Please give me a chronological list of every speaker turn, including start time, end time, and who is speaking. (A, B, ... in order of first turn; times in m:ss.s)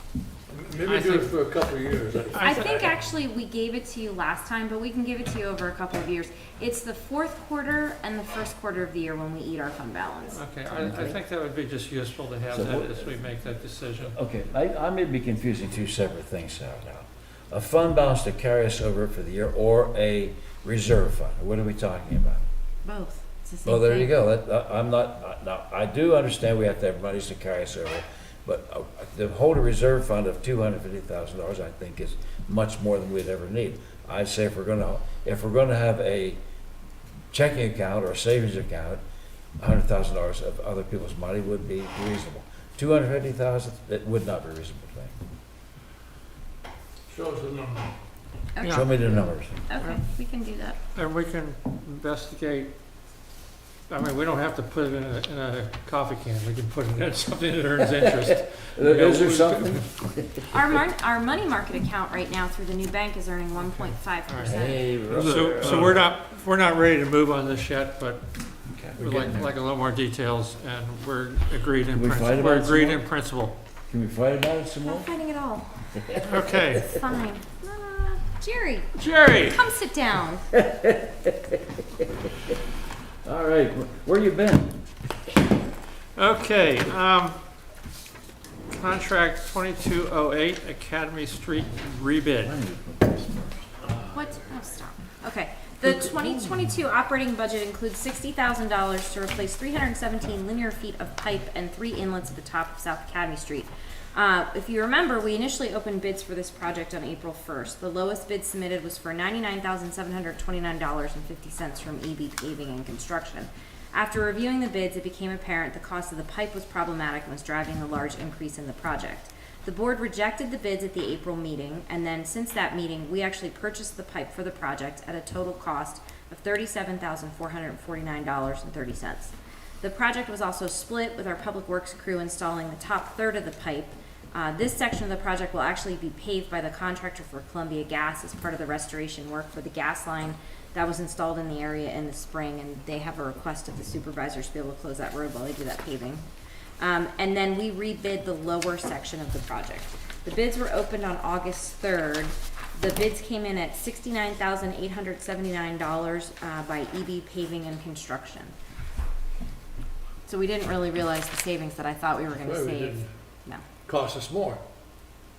0:00.5-0:02.4 A
0:00.8-0:01.4 B
0:02.3-0:02.9 B
0:02.4-0:11.2 C
0:10.3-0:14.2 B
0:12.5-0:13.1 D
0:14.1-0:22.5 D
0:22.8-0:24.1 C
0:23.6-0:36.4 D
0:37.3-0:39.0 D
0:39.6-0:45.1 D
0:47.1-0:47.9 A
0:48.6-0:50.8 C
0:48.6-0:48.9 B
0:48.7-0:49.6 D
0:51.0-0:52.7 B
0:53.9-0:59.8 B
0:58.0-1:00.4 D
1:00.5-1:04.8 C
1:03.6-1:04.6 B
1:04.4-1:06.1 D
1:05.1-1:08.3 B
1:05.2-1:05.9 A
1:08.7-1:09.5 D
1:09.0-1:13.6 B
1:11.9-1:13.0 D
1:13.9-1:15.1 D
1:14.8-1:15.8 C
1:16.0-1:16.8 D
1:16.2-1:16.9 B
1:16.8-1:20.4 C
1:19.0-1:19.6 B
1:20.5-1:22.6 D
1:23.2-1:24.8 D
1:26.2-1:27.4 B
1:28.7-1:32.6 B
1:32.4-1:33.7 D
1:34.1-2:26.2 C
2:26.8-2:38.5 C
2:40.3-2:43.6 C
2:42.4-2:43.1 A
2:43.9-2:44.6 A